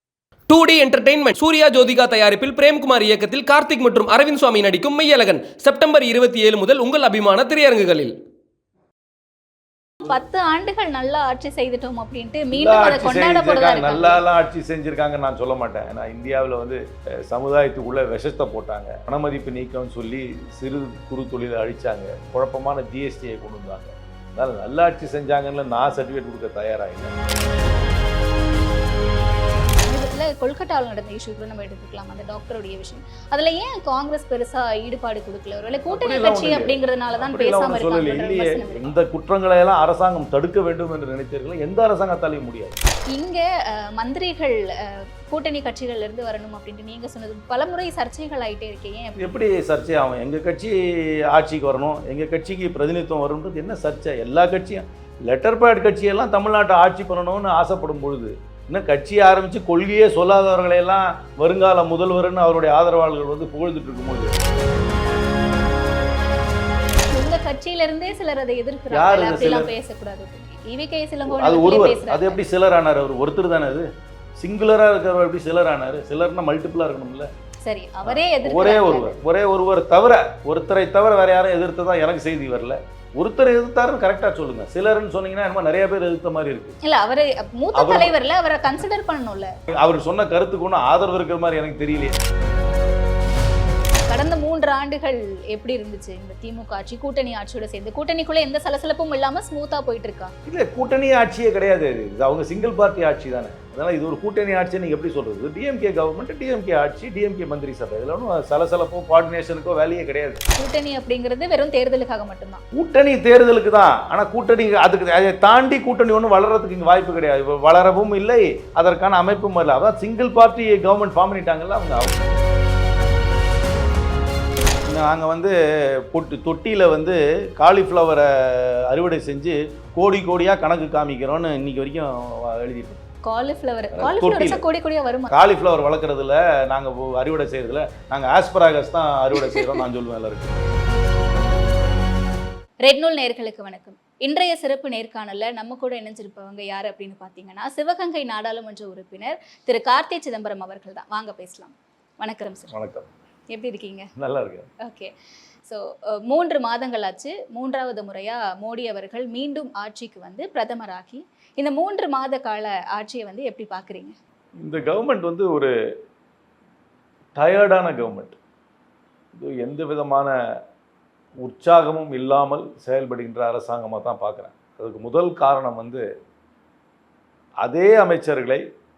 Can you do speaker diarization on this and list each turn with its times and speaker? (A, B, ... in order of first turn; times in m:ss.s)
0:00.5-0:08.1 A
0:10.0-0:14.2 B
0:12.5-0:27.1 C
0:29.8-0:38.9 B
0:35.9-0:42.8 C
0:43.1-0:49.3 B
0:49.2-1:04.4 C
1:07.1-1:12.4 B
1:08.9-1:09.7 C
1:11.2-1:17.3 C
1:17.6-1:19.1 B
1:18.0-1:26.8 C
1:26.8-1:29.5 B
1:27.7-1:28.2 C
1:29.7-1:32.2 C
1:34.1-1:40.3 B
1:40.4-1:50.4 C
1:50.6-1:52.6 B
1:52.7-2:02.3 C
2:04.8-2:13.0 C
2:13.2-2:15.3 B
2:13.9-2:14.6 C
2:15.3-2:20.6 C
2:22.8-2:32.7 B
2:32.7-2:33.1 C
2:33.5-2:34.1 B
2:34.2-2:34.7 C
2:34.8-2:35.1 B
2:35.6-2:44.1 B
2:44.6-2:45.7 C
2:47.3-2:48.4 C
2:49.3-2:50.4 C
2:51.4-2:56.0 C
2:57.6-2:58.6 C